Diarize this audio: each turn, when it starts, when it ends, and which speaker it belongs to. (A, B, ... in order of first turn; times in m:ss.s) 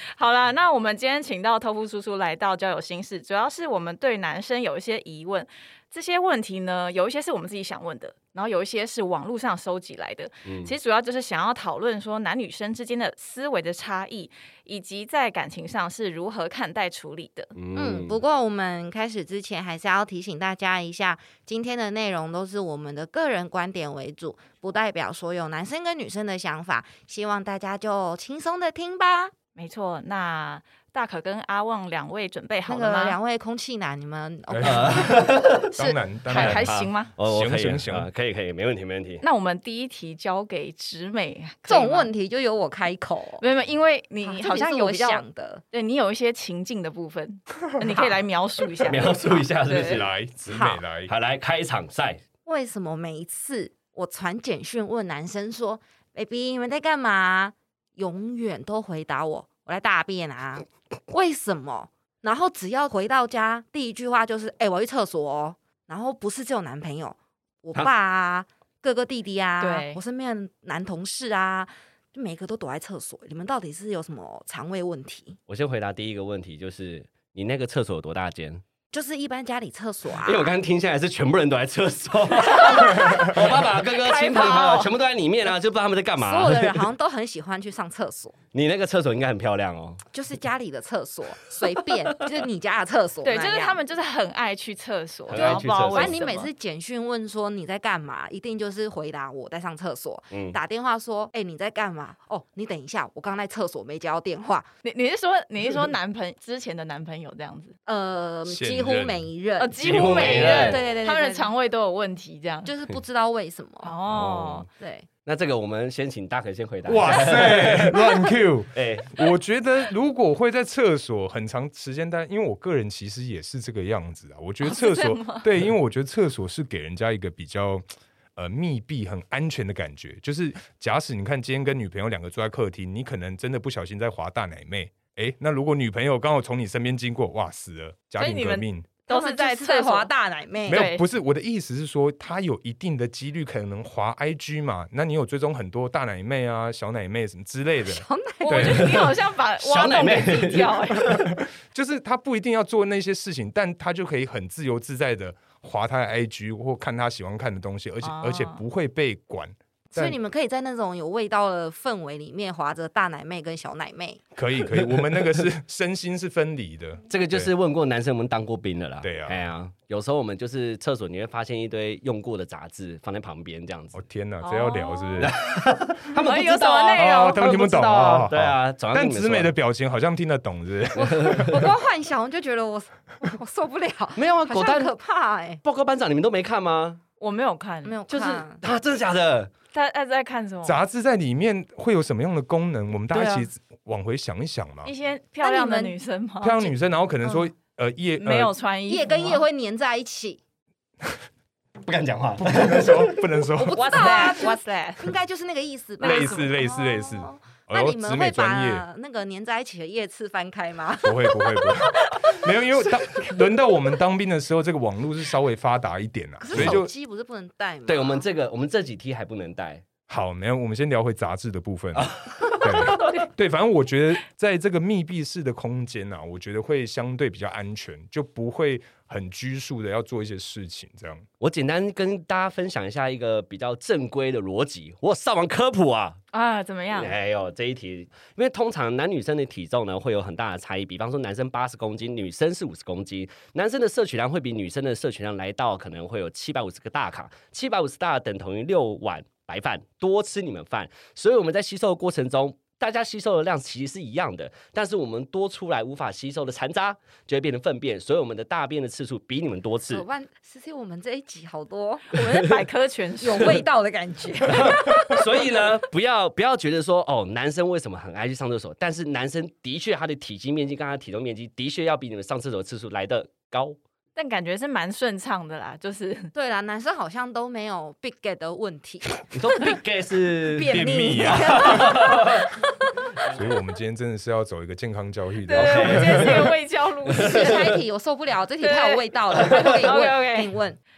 0:00.2-0:17.5 A
0:10.4-0:10.8 B
0:17.6-0:18.2 B
0:17.8-0:29.3 C
0:29.6-0:33.2 A
0:32.7-0:35.2 C
0:34.5-0:35.2 D
0:34.6-0:35.7 B
0:35.7-0:37.1 A
0:35.8-0:38.1 D
0:36.3-0:39.2 B
0:39.2-0:42.1 A
0:41.7-0:43.4 C
0:43.4-0:50.0 A
0:44.2-0:45.6 C
0:47.8-0:48.2 C
0:48.9-0:50.1 B
0:49.8-0:51.1 D
0:50.5-0:50.8 C
0:51.1-0:52.2 B
0:52.5-1:15.4 C
1:09.6-1:10.0 A
1:15.5-1:18.6 B
1:18.9-1:20.5 C
1:20.2-1:26.8 B
1:22.4-1:24.9 A
1:26.2-1:28.3 C
1:28.5-1:30.0 B
1:30.1-1:33.8 C
1:33.2-1:36.5 A
1:35.3-1:36.2 B
1:35.4-1:44.7 C
1:40.3-1:40.6 B
1:44.8-1:47.8 A
1:47.9-1:51.5 C
1:48.5-1:49.2 D
1:49.6-1:52.7 A
1:49.8-1:50.8 B
1:52.6-1:54.0 C
1:53.8-1:54.7 A
1:54.1-1:54.7 B
1:54.8-1:55.1 C
1:55.2-1:58.1 B
1:56.9-2:18.9 D
1:58.7-1:59.2 B
2:04.6-2:05.5 A
2:18.2-2:20.1 A
2:19.1-2:20.8 C
2:20.7-2:21.0 A
2:20.7-2:28.9 D
2:27.9-2:28.8 C
2:28.4-2:31.3 A
2:28.6-2:31.3 B
2:31.1-2:40.2 D
2:38.0-2:38.6 A
2:39.9-2:44.2 C
2:44.4-2:47.5 D
2:47.1-2:54.0 B
2:49.0-2:49.4 D
2:53.9-2:55.3 D
2:54.4-2:55.4 A
2:55.2-2:59.5 B
2:56.2-2:57.4 A
2:56.2-2:57.4 C
2:57.0-3:01.6 D
3:01.0-3:05.6 C
3:01.0-3:01.6 B
3:04.2-3:04.9 B
3:05.6-3:07.0 B
3:07.2-3:08.5 A
3:07.8-3:08.6 C
3:08.6-3:09.5 B
3:09.7-3:10.8 A
3:10.6-3:14.9 D
3:13.1-3:13.4 B
3:14.8-3:16.7 A
3:15.4-3:16.0 C
3:16.4-3:18.5 D
3:17.2-3:17.5 C
3:18.2-3:19.4 A
3:18.9-3:20.4 C
3:21.8-3:23.4 B
3:22.4-3:24.4 D
3:23.6-3:31.7 C
3:23.8-3:25.2 A
3:26.0-3:26.5 A
3:26.0-3:28.8 D
3:31.0-3:36.9 D
3:36.4-3:38.2 C
3:36.5-3:36.8 B
3:37.9-3:39.8 B
3:40.1-3:51.3 D
3:41.9-3:42.9 B
3:42.8-3:43.2 A
3:51.4-3:56.2 B
3:56.3-3:57.1 A
3:56.9-4:20.0 B
4:19.9-4:22.2 C
4:22.1-4:23.6 A
4:23.2-4:25.4 C
4:24.5-4:33.8 B
4:34.2-4:36.3 A
4:36.4-4:39.3 C
4:39.3-4:42.5 B
4:40.5-4:42.5 C
4:40.8-4:42.0 D
4:43.2-4:46.5 D
4:45.4-4:47.7 A
4:45.5-4:47.8 B
4:47.2-4:50.8 C
4:48.6-4:50.5 A